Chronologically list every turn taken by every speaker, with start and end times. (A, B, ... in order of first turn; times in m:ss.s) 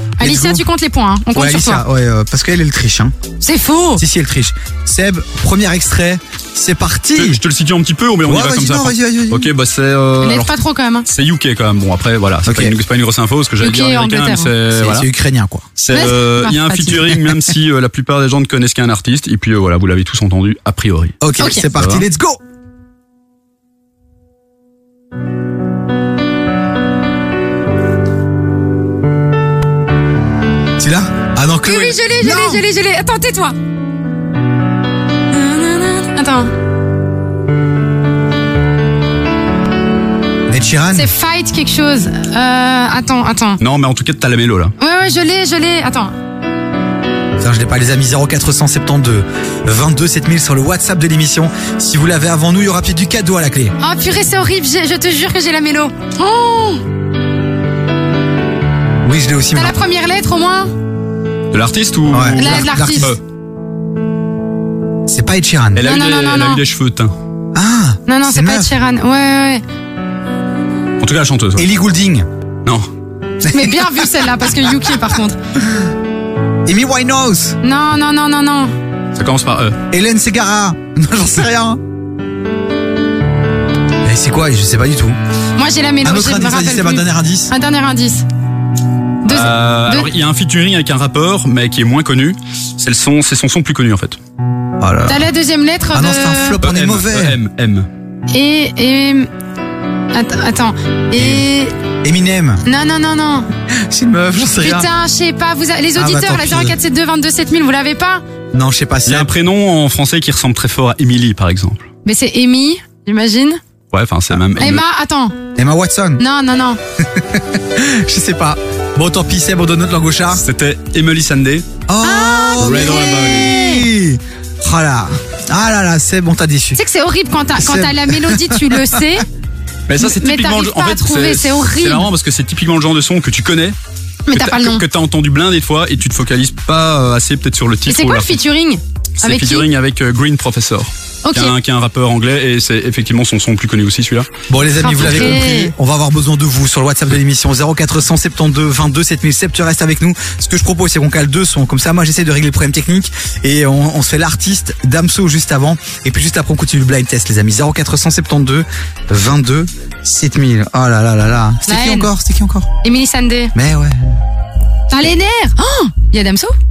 0:00.2-0:01.8 A
0:00.2-0:00.6 B
0:01.3-0:03.1 B
0:03.4-0:04.0 A
0:04.0-0:07.4 B
0:07.2-0:10.5 C
0:08.2-0:09.5 B
0:10.2-0:11.1 A
0:11.1-0:15.1 C
0:12.4-0:12.7 B
0:13.6-0:14.5 A
0:14.7-0:15.7 B
0:15.8-0:21.2 C
0:15.9-0:17.1 A
0:21.2-0:22.4 B
0:21.4-0:21.7 A
0:21.7-0:22.0 C
0:30.8-0:32.6 B
0:31.6-0:33.5 A
0:35.3-0:36.5 A
0:40.5-0:41.1 B
0:40.9-0:43.6 A
0:43.6-0:44.7 C
0:44.8-0:46.1 A
0:47.4-0:53.7 B
0:53.8-0:56.8 A
0:59.0-0:59.8 B
0:59.5-1:00.7 A
1:01.5-1:03.2 C
1:02.1-1:03.1 B
1:02.3-1:03.1 A
1:05.1-1:05.9 B
1:05.7-1:07.1 C
1:05.8-1:06.6 A
1:07.5-1:08.7 B
1:08.1-1:09.6 A
1:11.0-1:11.7 C
1:11.6-1:12.2 B
1:13.4-1:15.4 A
1:13.4-1:15.0 B
1:16.6-1:17.6 B
1:17.6-1:18.7 A
1:19.1-1:19.8 C
1:19.9-1:21.8 B
1:24.0-1:25.2 B
1:25.6-1:28.2 A
1:26.0-1:27.5 B
1:29.2-1:30.1 A
1:29.3-1:34.2 C
1:34.8-1:35.3 B
1:35.0-1:36.6 A
1:35.9-1:37.4 B
1:36.6-1:37.9 C
1:38.3-1:39.3 A
1:40.1-1:41.7 A
1:41.1-1:41.4 B
1:42.0-1:42.6 B
1:42.6-1:43.5 A
1:43.9-1:44.9 B
1:44.6-1:48.2 A
1:45.9-1:46.8 B
1:48.5-1:49.3 B
1:49.0-1:51.8 C
1:52.0-1:53.6 A
1:53.9-1:54.8 C
1:54.6-1:55.4 A
1:55.5-1:56.2 B
1:56.2-1:56.8 A
1:57.1-2:00.4 B
2:00.3-2:01.6 C
2:01.9-2:06.8 B
2:02.0-2:03.9 A
2:02.6-2:03.5 C
2:06.8-2:09.2 A
2:07.6-2:08.9 B
2:09.9-2:13.8 C
2:10.0-2:12.1 A
2:14.3-2:14.8 A
2:14.3-2:18.4 C
2:17.9-2:19.7 A
2:19.2-2:24.3 C
2:21.2-2:21.5 A
2:24.5-2:42.7 B
2:24.8-2:25.7 A
2:25.0-2:25.4 C
2:41.7-2:42.1 A
2:42.8-2:43.5 A
2:43.5-2:44.1 B
2:44.9-2:46.5 A